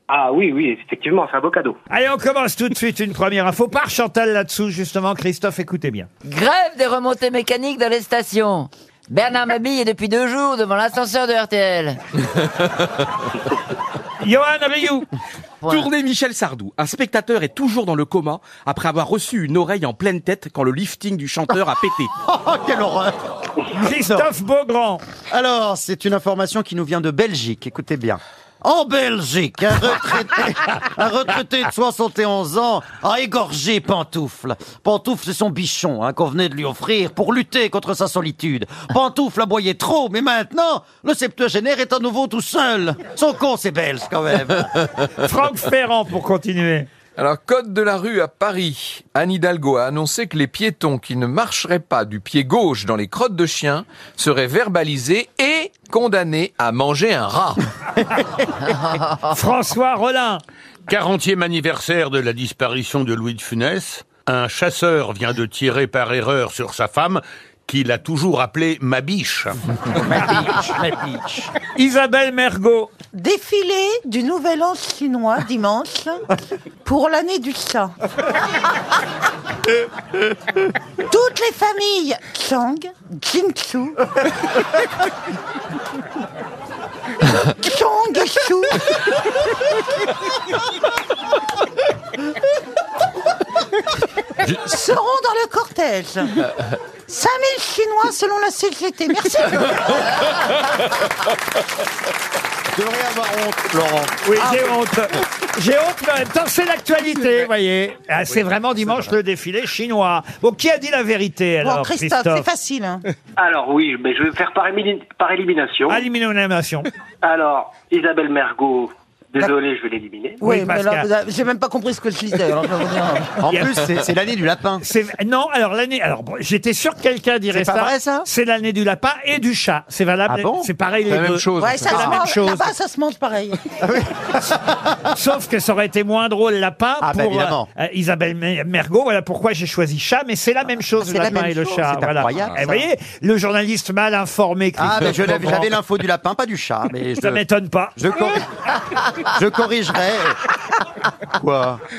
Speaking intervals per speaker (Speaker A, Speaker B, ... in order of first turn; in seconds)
Speaker A: 0.1-1.8, 113.4-116.0, 117.2-120.4
Speaker B: 1.9-6.1, 14.2-15.1, 23.8-25.0, 45.2-46.9, 59.2-60.4, 71.8-72.9, 104.2-112.5, 115.9-116.9, 120.4-121.1, 124.8-132.7, 135.1-145.7, 147.2-148.0
Speaker C: 6.2-12.0, 15.6-15.9
Speaker D: 15.7-22.1
Speaker E: 22.2-23.2, 23.9-24.3, 25.3-44.7, 70.0-71.5, 102.7-104.6, 123.4-124.8, 127.5-128.3, 130.3-130.7, 133.8-134.9, 137.0-137.7, 141.0-142.8, 144.8-147.4, 148.0-148.4, 149.2-150.4, 151.3-151.8
Speaker F: 47.2-57.6, 131.1-132.2
Speaker G: 60.9-69.6
Speaker H: 73.1-76.2, 76.8-77.9, 81.0-84.0, 87.4-89.1, 94.5-96.5, 97.1-100.4, 111.6-113.0, 120.4-123.4, 131.6-133.6